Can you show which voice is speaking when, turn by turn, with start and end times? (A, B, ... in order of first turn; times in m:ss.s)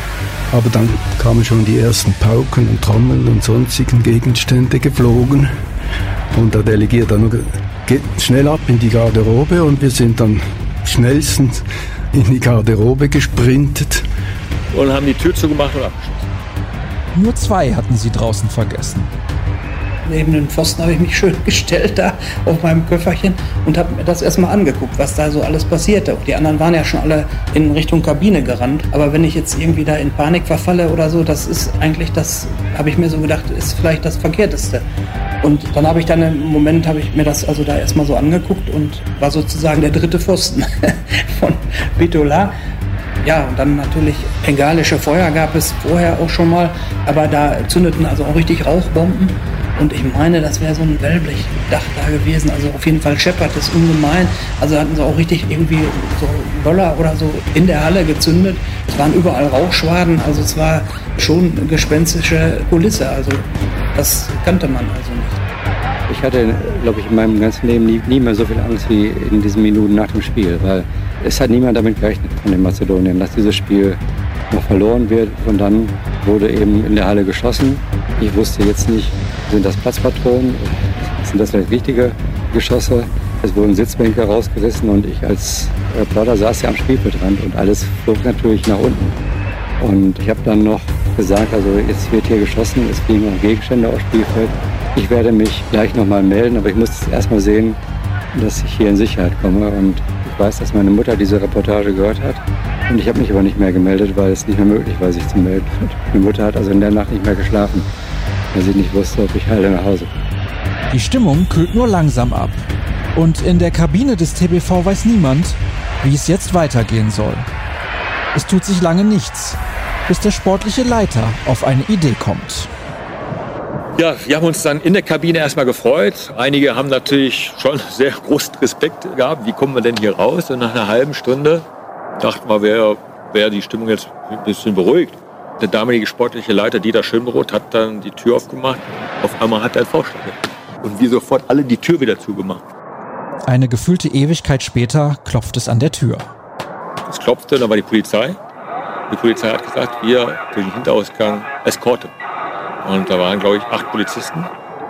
0:00.5-0:05.5 A
0:06.3-0:14.0 A
0:14.7-0:16.3 B
0:17.1-0:19.1 C
0:20.0-0:34.8 D
0:35.4-0:42.5 D
0:43.2-1:05.4 D
1:06.1-1:14.0 E
1:14.5-1:29.1 E
1:29.8-1:37.8 E
1:38.3-1:47.9 E
1:48.5-1:50.1 E
1:50.9-1:52.6 C
1:53.1-1:57.5 C
1:58.3-2:02.7 C
2:04.0-2:11.6 B
2:12.2-2:22.6 B
2:23.5-2:26.3 C
2:27.0-2:28.4 B
2:29.1-2:32.1 B
2:32.8-2:34.5 B